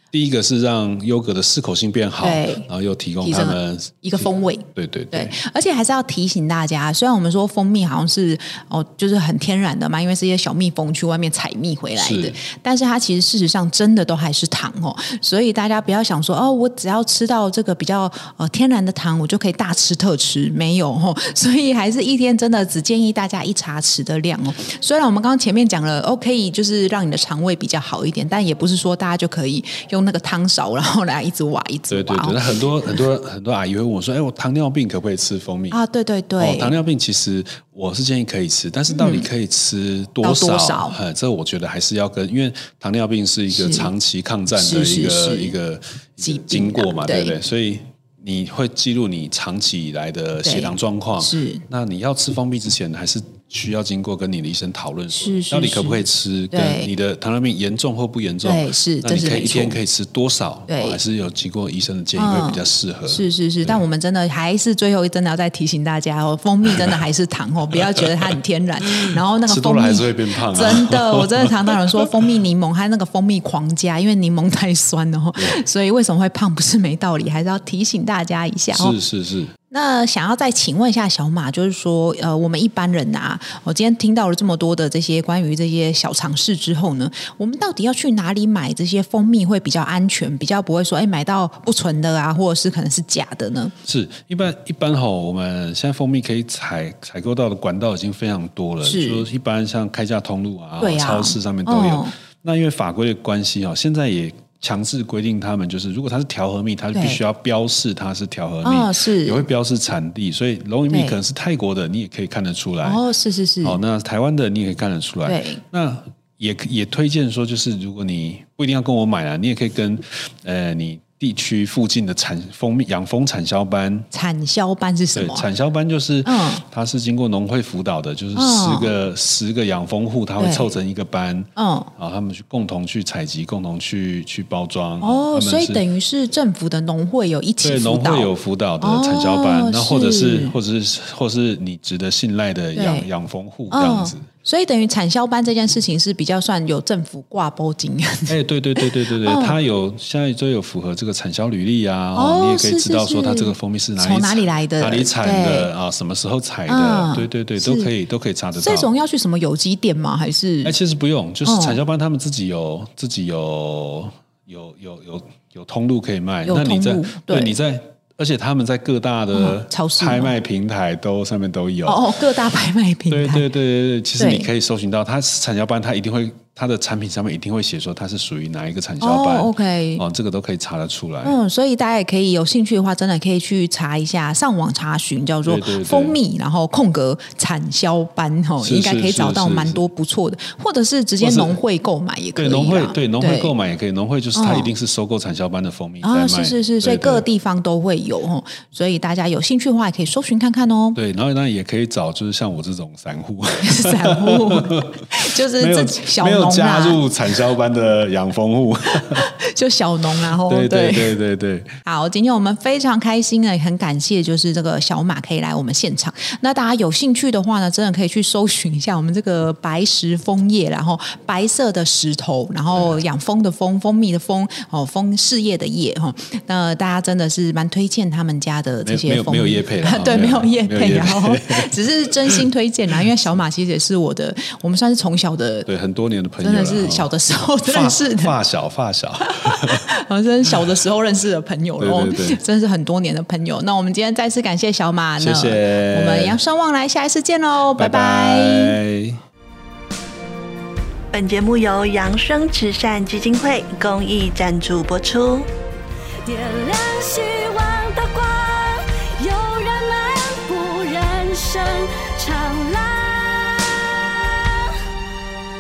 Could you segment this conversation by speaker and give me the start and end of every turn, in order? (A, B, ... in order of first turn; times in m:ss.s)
0:00.1-0:05.4 A
0:02.2-0:02.7 B
0:03.2-0:33.0 B
0:12.0-0:12.4 A
0:31.9-0:35.8 A
0:35.7-0:36.8 B
0:36.4-1:03.8 A
0:38.9-0:39.3 B
0:40.2-0:41.0 B
0:43.5-0:43.9 B
0:44.6-0:45.6 B
0:46.2-0:47.4 B
0:50.4-0:51.6 B
0:55.1-0:56.9 B
0:58.4-0:59.8 B
1:00.7-1:01.0 B
1:02.2-1:19.0 B
1:06.7-1:07.0 A
1:08.0-1:08.3 A
1:09.0-1:12.3 A
1:18.7-1:19.5 A
1:19.7-1:33.7 B
1:33.8-1:53.0 A
1:38.8-1:39.3 B
1:40.8-1:42.1 B
1:46.9-1:47.2 B
1:48.6-1:49.4 B
1:50.9-1:51.2 B
1:52.8-1:53.8 B
1:53.6-2:04.1 A
1:55.3-1:55.6 B
2:04.1-2:05.5 B
2:05.1-2:15.8 A
2:06.2-2:06.6 B
2:08.4-2:08.9 B
2:10.4-2:10.7 B
2:11.6-2:11.9 B
2:15.0-2:18.3 B
2:17.6-2:24.3 A
2:18.8-2:20.6 B
2:22.8-2:23.1 B
2:23.7-2:29.6 B
2:28.3-2:38.9 A
2:32.1-2:35.7 B
2:36.7-2:37.9 B
2:38.6-2:40.8 B
2:40.6-2:52.1 A
2:41.4-2:41.8 B
2:46.4-2:47.5 B
2:49.3-2:50.3 B
2:51.9-2:53.5 B
2:53.1-3:01.4 A
2:54.2-2:54.5 B
2:59.0-3:00.0 B
3:01.2-3:13.5 B
3:05.4-3:06.2 A
3:08.6-3:09.8 A
3:11.2-3:11.6 A
3:12.4-3:17.3 A
3:14.4-3:14.7 B
3:16.0-3:21.0 B
3:21.0-3:29.3 A
3:23.6-3:27.0 B
3:29.0-3:31.2 B
3:30.2-3:31.7 A
3:31.8-3:55.7 B
3:42.7-3:43.0 A
3:48.8-3:52.4 A
3:55.7-3:57.1 A
3:56.4-3:58.4 B
3:57.6-3:59.9 A
3:59.2-4:08.8 B
4:01.8-4:02.4 A
4:05.2-4:06.4 A
4:07.8-4:09.2 A
4:11.1-4:15.5 C
4:16.2-4:24.8 D